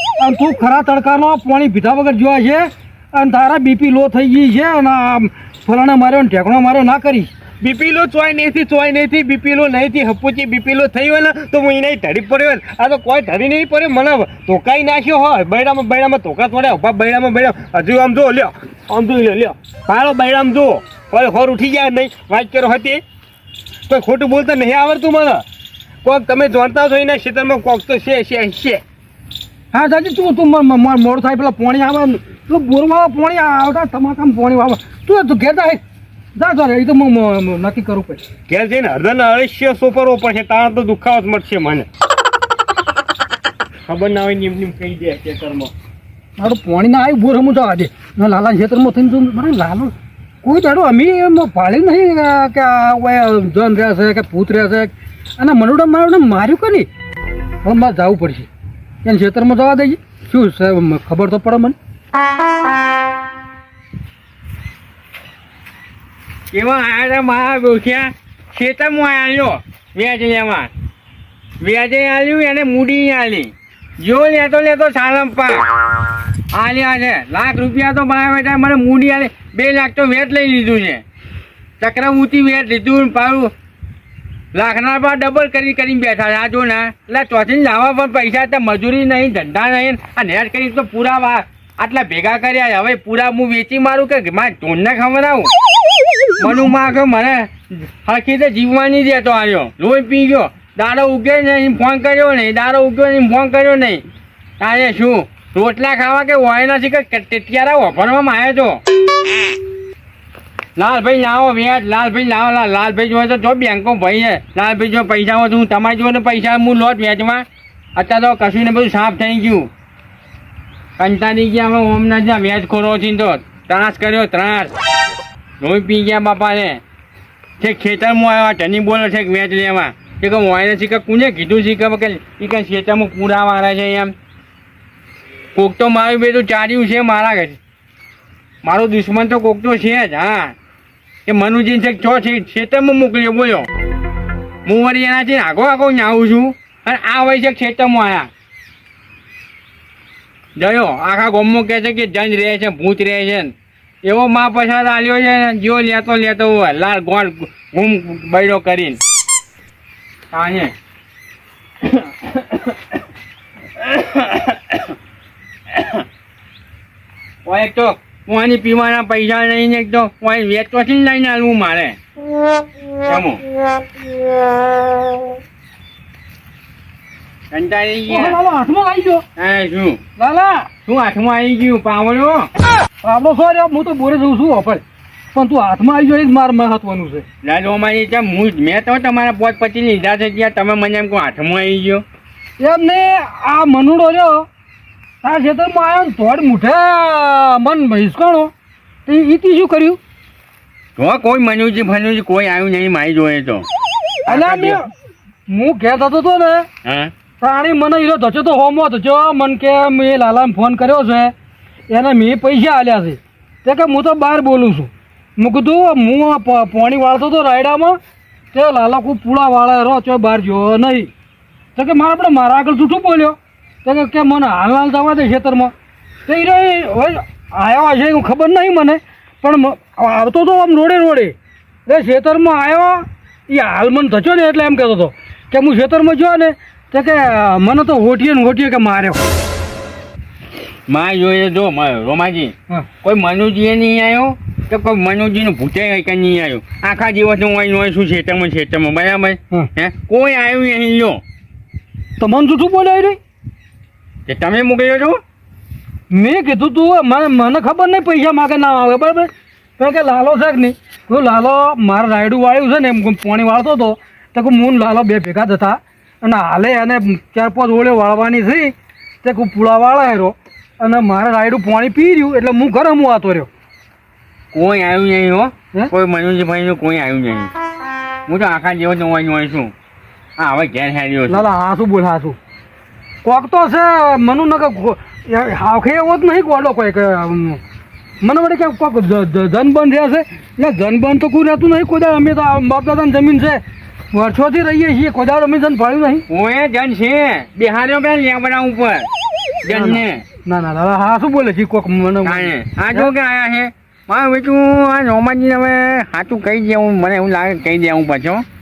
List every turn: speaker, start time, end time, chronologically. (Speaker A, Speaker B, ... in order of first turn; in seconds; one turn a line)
Speaker A: 0.2-7.3
Speaker B: 7.6-23.0
Speaker B: 23.9-25.4
Speaker B: 26.0-28.8
Speaker A: 29.7-35.8
Speaker A: 36.4-38.2
Speaker B: 38.5-41.9
Speaker B: 43.9-45.7
Speaker A: 46.4-56.9
Speaker A: 57.6-58.5
Speaker A: 59.0-61.8
Speaker C: 66.5-70.7
Speaker C: 71.6-75.6
Speaker C: 76.5-81.0
Speaker C: 81.8-83.5
Speaker C: 84.5-95.5
Speaker C: 96.4-104.0
Speaker C: 104.6-108.8
Speaker C: 110.8-117.4
Speaker C: 118.0-119.7
Speaker C: 121.0-124.7
Speaker C: 125.6-126.8
Speaker C: 127.6-134.1
Speaker C: 135.5-137.6
Speaker C: 138.6-140.5
Speaker C: 141.2-143.7
Speaker C: 144.7-148.3
Speaker C: 150.6-153.5
Speaker C: 154.0-159.0
Speaker C: 160.3-160.7
Speaker C: 161.9-162.7
Speaker C: 163.8-164.9
Speaker C: 165.7-166.0
Speaker C: 167.4-172.0
Speaker C: 173.0-173.4
Speaker C: 177.5-178.4
Speaker A: 178.1-179.2
Speaker C: 179.4-180.0
Speaker A: 180.2-180.7
Speaker C: 180.8-182.5
Speaker A: 183.0-187.2
Speaker C: 187.4-192.0
Speaker A: 192.6-194.4
Speaker A: 195.2-198.5
Speaker A: 199.1-200.0
Speaker C: 201.0-203.7
Speaker C: 204.3-204.8
Speaker A: 204.3-204.9
Speaker A: 205.5-206.7
Speaker C: 206.8-207.1
Speaker A: 207.4-211.3
Speaker A: 211.9-218.0
Speaker A: 218.5-221.1
Speaker A: 221.8-225.7
Speaker A: 226.2-231.3
Speaker A: 231.9-239.2
Speaker C: 240.9-251.2
Speaker A: 252.2-253.2
Speaker C: 254.3-255.2
Speaker A: 256.1-273.5
Speaker C: 274.5-277.5
Speaker C: 278.3-279.7
Speaker C: 280.4-281.5
Speaker A: 281.3-282.4
Speaker A: 283.2-287.6
Speaker A: 288.2-293.6
Speaker A: 294.1-296.2
Speaker C: 296.3-299.1
Speaker C: 299.6-300.2
Speaker A: 299.7-303.1
Speaker C: 302.2-308.4